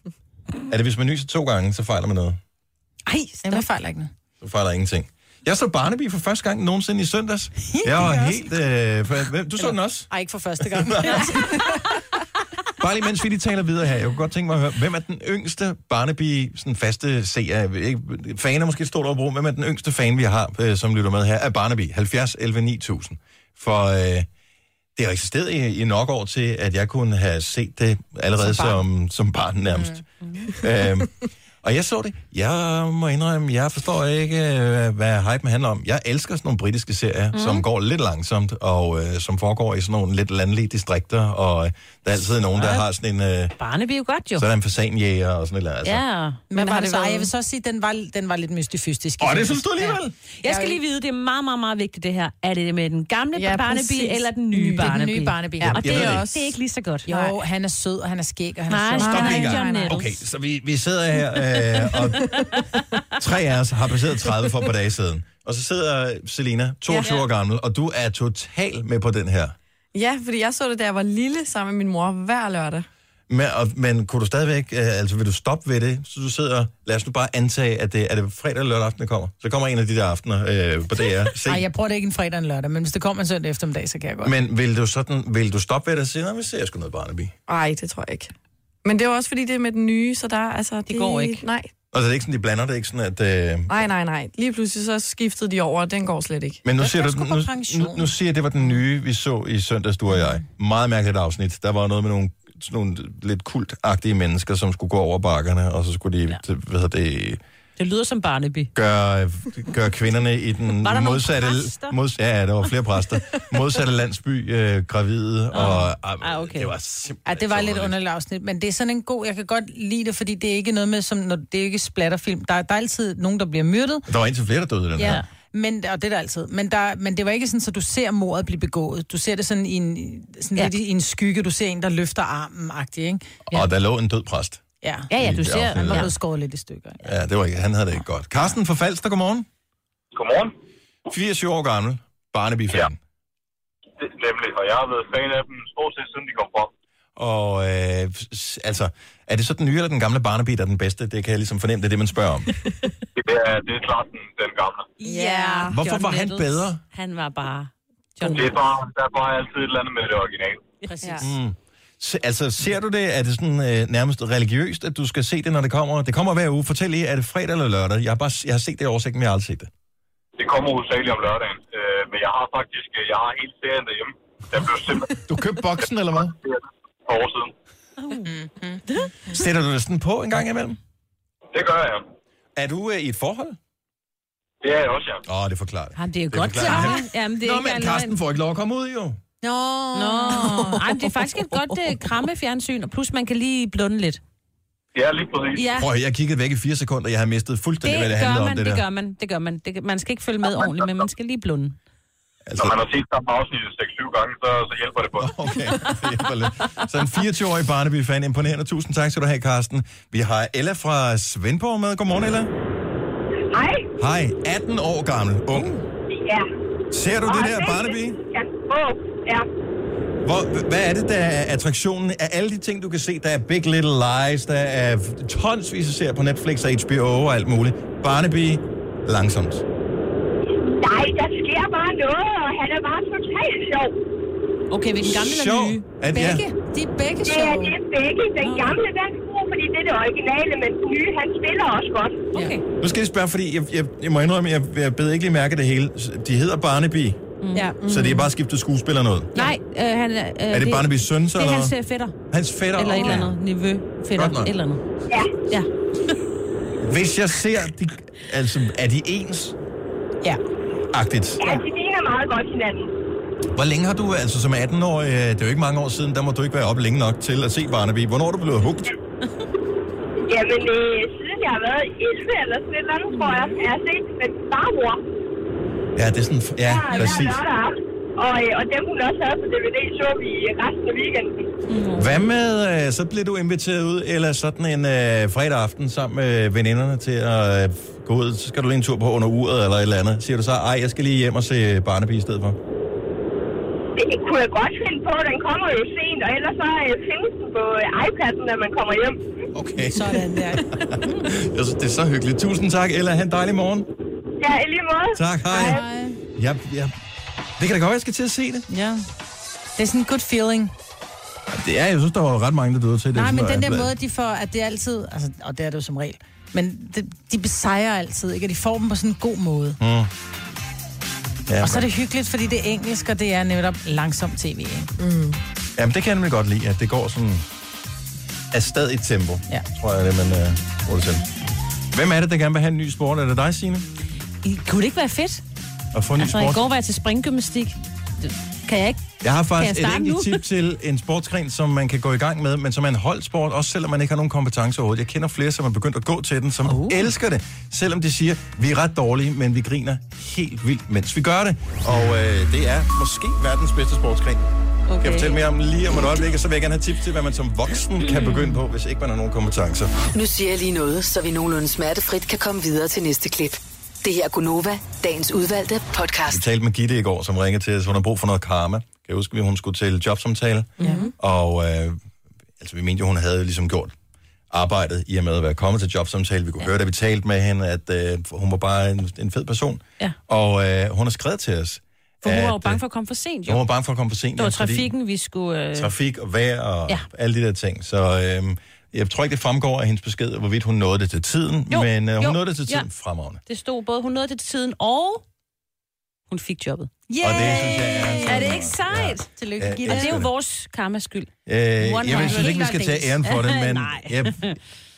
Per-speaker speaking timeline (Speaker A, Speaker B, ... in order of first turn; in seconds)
Speaker A: 0.7-2.4, 4.4-11.6, 12.8-24.3, 25.0-43.5, 44.4-46.0, 49.2-50.2, 55.7-56.3, 59.0-62.5, 63.1-69.5, 73.3-81.7, 84.2-87.3, 91.9-93.8, 96.6-107.4, 108.8-118.0, 124.1-125.2, 133.5-134.6, 135.2-136.1, 137.0-139.5, 141.1-143.0, 147.2-152.5, 155.7-156.8, 161.2-169.7, 175.2-176.4, 179.3-180.8, 182.6-183.6, 185.2-189.2, 195.8-198.8, 202.5-202.8, 205.2-212.5, 214.0-215.8, 216.9-218.2, 220.2-229.6, 235.0-236.4, 242.8-247.2, 247.8-249.5, 250.5-251.7, 252.3-253.3, 254.2-254.5, 256.8-259.6, 260.9-261.6, 263.6-268.9, 275.9-277.4, 282.0-292.6, 299.5-303.9, 305.1-305.8, 306.4-306.9, 307.6-308.7, 311.5-313.9, 319.8-320.1, 321.5-321.9, 325.8-327.5, 328.5-331.3, 331.9-333.9, 335.9-336.7, 339.2-354.5, 355.0-359.9, 366.3-372.0, 372.6-373.9, 374.5-382.8, 383.5-384.9, 385.8-393.4, 397.2-400.3, 401.5-404.5
Speaker B: 3.1-4.1, 7.7-8.5, 9.6-11.8, 28.4-28.8, 46.5-50.8, 54.7-55.8, 57.1-59.5, 81.5-84.3, 96.8-98.1, 117.3-124.1, 125.0-133.2, 134.8-135.1, 135.7-137.1, 160.9-161.3, 178.2-178.8, 186.6-186.9, 189.4-190.8, 236.1-237.8, 299.9-300.7, 305.5-306.2, 308.7-309.0, 309.8-310.7, 313.1-319.8, 321.6-324.9, 397.1-398.6, 399.4-400.2, 402.1-403.0
Speaker C: 3.1-3.6, 30.2-30.5, 37.3-37.6, 42.6-42.9, 43.6-44.5, 45.8-47.3, 50.4-57.3, 58.7-60.2, 90.9-91.4, 107.8-108.7, 110.8-112.0, 115.5-116.7, 135.1-136.1, 155.0-158.5, 178.0-178.3, 186.0-188.2, 189.9-194.2, 195.5-195.9, 197.8-201.8, 234.7-235.8, 238.4-238.8, 242.3-242.6, 247.4-247.8, 249.3-252.2, 252.8-254.8, 281.7-282.2, 334.4-335.4, 336.2-339.0, 339.6-340.4, 346.7-347.1, 354.9-355.4, 358.1-358.5, 382.2-383.6, 384.4-385.9, 391.7-392.9, 393.5-395.2, 396.3-397.5, 398.2-399.3, 399.9-404.6
Speaker D: 53.4-54.9, 55.6-56.5, 59.0-60.0, 62.3-62.6, 66.9-67.1, 69.9-72.9, 87.5-88.3, 88.8-91.7, 93.7-96.6, 155.0-155.8, 247.8-248.3, 325.0-325.4, 370.8-371.1
Speaker E: 140.1-140.5, 144.0-146.7, 153.2-154.9, 158.3-160.7, 170.4-175.2, 176.2-177.5, 181.5-182.1, 184.6-185.2, 194.9-195.7, 202.6-205.3
Speaker F: 213.5-213.9, 216.1-216.5, 217.2-219.5, 230.6-234.0, 237.3-242.3, 255.1-255.4, 261.4-262.9, 270.3-275.0, 276.6-281.5, 294.0-299.2, 304.4-305.8
Speaker G: 360.1-366.4